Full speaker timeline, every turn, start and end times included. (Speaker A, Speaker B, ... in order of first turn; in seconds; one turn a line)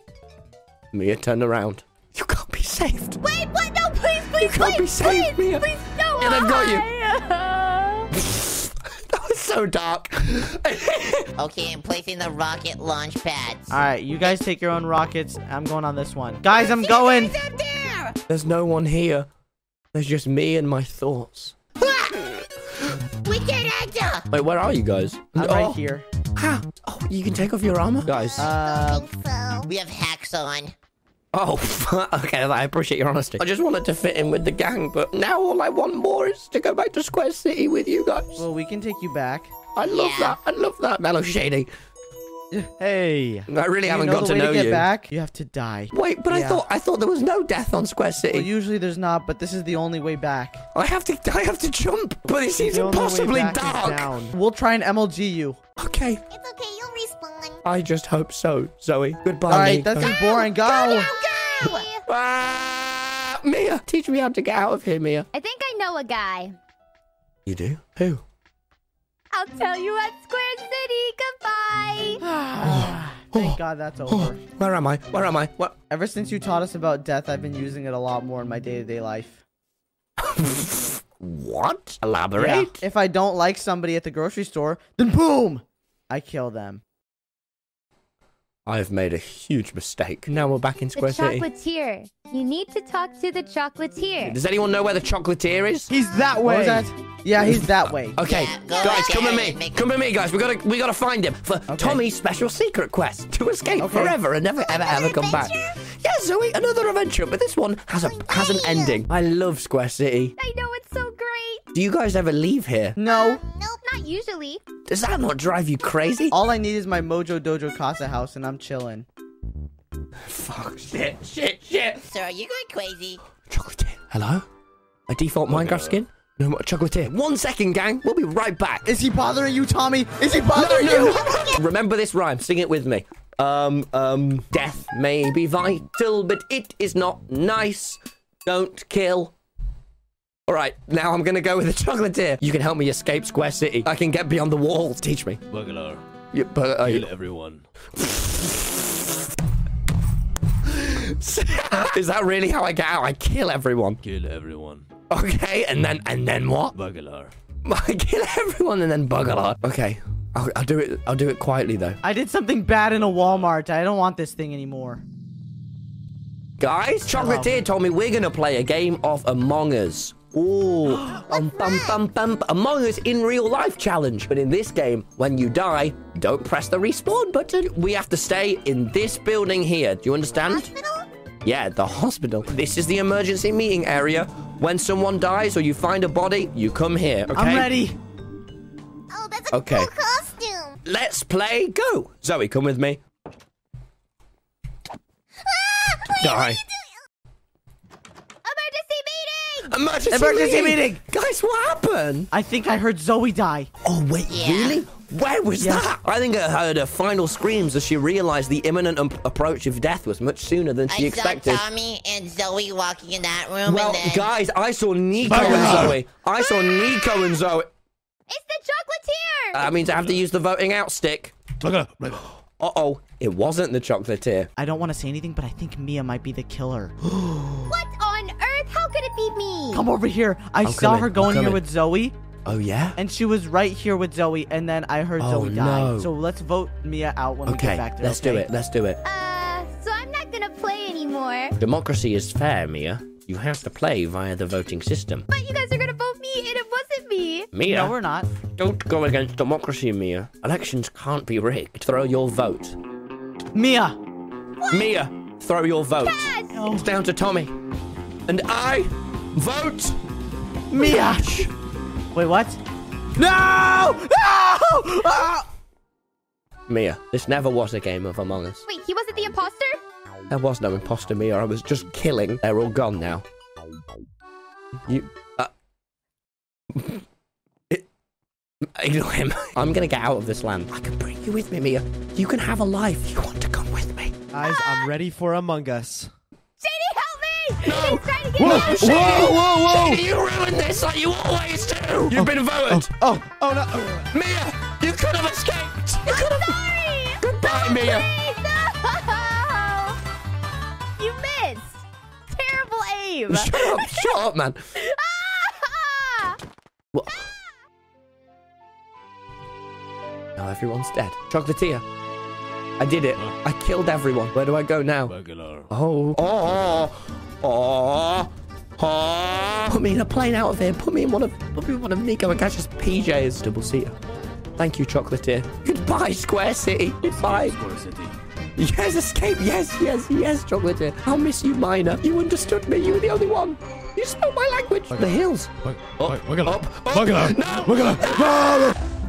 Speaker A: 0.9-3.2
Speaker B: 3.2-8.1
Speaker A: 4.4-6.9
Speaker A: 8.1-11.3
Speaker C: 11.4-14.4
Speaker D: 13.7-17.4
Speaker C: 16.6-18.2
Speaker A: 18.3-19.3
Speaker A: 19.9-21.6
Speaker C: 21.8-22.4
Speaker C: 23.2-24.3
Speaker A: 24.3-25.8
Speaker D: 25.4-26.1
Speaker A: 26.4-28.5
Speaker E: 28.0-29.7
Speaker D: 28.4-29.1
Speaker C: 29.7-30.7
Speaker A: 31.3-38.5
Speaker D: 38.4-39.5
Speaker A: 39.8-41.7
Speaker C: 39.8-40.4
Speaker F: 42.8-43.5
Speaker A: 43.5-44.9
Speaker D: 43.9-46.6
Speaker A: 45.9-48.5
Speaker D: 48.2-50.6
Speaker A: 50.7-54.1
Speaker F: 52.6-54.4
Speaker D: 54.3-55.6
Speaker A: 55.8-56.2
Speaker E: 56.3-57.6
Speaker A: 57.6-60.2
Speaker D: 59.5-61.1
Speaker E: 60.0-62.0
Speaker A: 62.0-65.3
Speaker B: 65.3-66.6
Speaker A: 67.5-68.2
Speaker B: 69.3-72.2
Speaker D: 72.2-74.4
Speaker A: 72.6-75.8
Speaker D: 75.9-79.4
Speaker A: 80.2-82.8
Speaker D: 82.4-86.8
Speaker A: 88.7-91.5
Speaker B: 91.0-94.4
Speaker A: 94.2-95.9
Speaker F: 95.9-96.9
Speaker D: 96.4-98.2
Speaker A: 97.4-110.3
Speaker C: 98.2-99.9
Speaker E: 98.7-99.5
Speaker D: 101.7-102.0
Speaker D: 103.8-104.2
Speaker E: 104.6-105.8
Speaker E: 107.9-109.1
Speaker B: 110.4-111.7
Speaker A: 111.7-113.0
Speaker D: 113.0-113.4
Speaker E: 113.0-113.9
Speaker B: 113.8-114.6
Speaker A: 114.9-116.4
Speaker D: 116.3-119.1
Speaker A: 120.3-122.1
Speaker C: 122.1-123.2
Speaker A: 123.5-124.5
Speaker A: 125.1-128.9
Speaker G: 125.5-126.0
Speaker D: 128.8-131.4
Speaker A: 130.5-139.3
Speaker A: 140.5-145.4
Speaker G: 145.5-146.0
Speaker A: 146.3-147.1
Speaker G: 146.8-147.6
Speaker A: 148.0-149.0
Speaker A: 150.7-154.0
Speaker G: 154.0-154.9
Speaker A: 155.1-156.8
Speaker G: 156.7-157.3
Speaker A: 157.7-162.0
Speaker D: 162.0-165.0
Speaker G: 163.1-163.4
Speaker A: 166.6-180.7
Speaker D: 167.1-167.7
Speaker D: 170.9-171.2
Speaker E: 171.2-172.0
Speaker E: 180.4-181.1
Speaker A: 181.4-187.7
Speaker D: 187.3-188.0
Speaker E: 189.1-190.8
Speaker A: 189.5-189.9
Speaker A: 190.8-193.0
Speaker E: 195.4-197.0
Speaker A: 196.2-196.6
Speaker B: 198.4-199.8
Speaker A: 199.6-202.3
Speaker D: 200.1-201.0
Speaker D: 202.3-203.7
Speaker A: 203.8-211.6
Speaker C: 204.3-204.8
Speaker D: 205.6-205.9
Speaker C: 210.9-214.3
Speaker A: 213.7-217.7
Speaker G: 215.2-216.0
Speaker B: 216.4-217.4
Speaker B: 218.3-219.7
Speaker A: 219.5-221.4
Speaker G: 219.8-220.2
Speaker G: 221.6-222.3
Speaker A: 222.6-224.5
Speaker D: 224.6-226.9
Speaker A: 227.0-227.7
Speaker B: 227.7-229.9
Speaker D: 229.7-232.2
Speaker A: 230.6-231.6
Speaker A: 232.5-233.0
Speaker D: 233.0-238.5
Speaker A: 235.2-236.1
Speaker A: 237.4-239.0
Speaker B: 239.0-241.6
Speaker A: 241.6-245.3
Speaker B: 245.3-247.6
Speaker A: 247.5-247.9
Speaker D: 247.6-248.3
Speaker A: 248.5-252.8
Speaker D: 253.5-254.0
Speaker B: 254.6-254.9
Speaker A: 254.7-257.5
Speaker B: 256.0-256.6
Speaker D: 256.5-256.9
Speaker A: 258.3-260.0
Speaker D: 260.7-261.5
Speaker A: 260.7-261.5
Speaker D: 262.1-262.6
Speaker D: 263.2-265.5
Speaker A: 266.7-268.6
Speaker B: 268.7-269.8
Speaker A: 270.3-273.2
Speaker A: 274.9-275.5
Speaker A: 276.7-277.0
Speaker A: 278.6-284.2
Speaker F: 284.3-286.1
Speaker B: 284.4-284.9
Speaker B: 286.6-289.1
Speaker A: 287.6-293.0
Speaker F: 288.4-290.1
Speaker F: 292.1-294.1
Speaker A: 294.1-296.6
Speaker B: 296.1-300.0
Speaker A: 297.2-298.1
Speaker B: 301.0-304.2
Speaker A: 303.3-304.6
Speaker B: 304.8-306.4
Speaker A: 306.9-307.2
Speaker A: 310.4-311.9
Speaker A: 312.8-315.1
Speaker G: 315.1-315.7
Speaker A: 315.7-324.0
Speaker A: 324.6-327.6
Speaker G: 327.0-328.1
Speaker A: 328.6-338.8
Speaker G: 334.9-338.8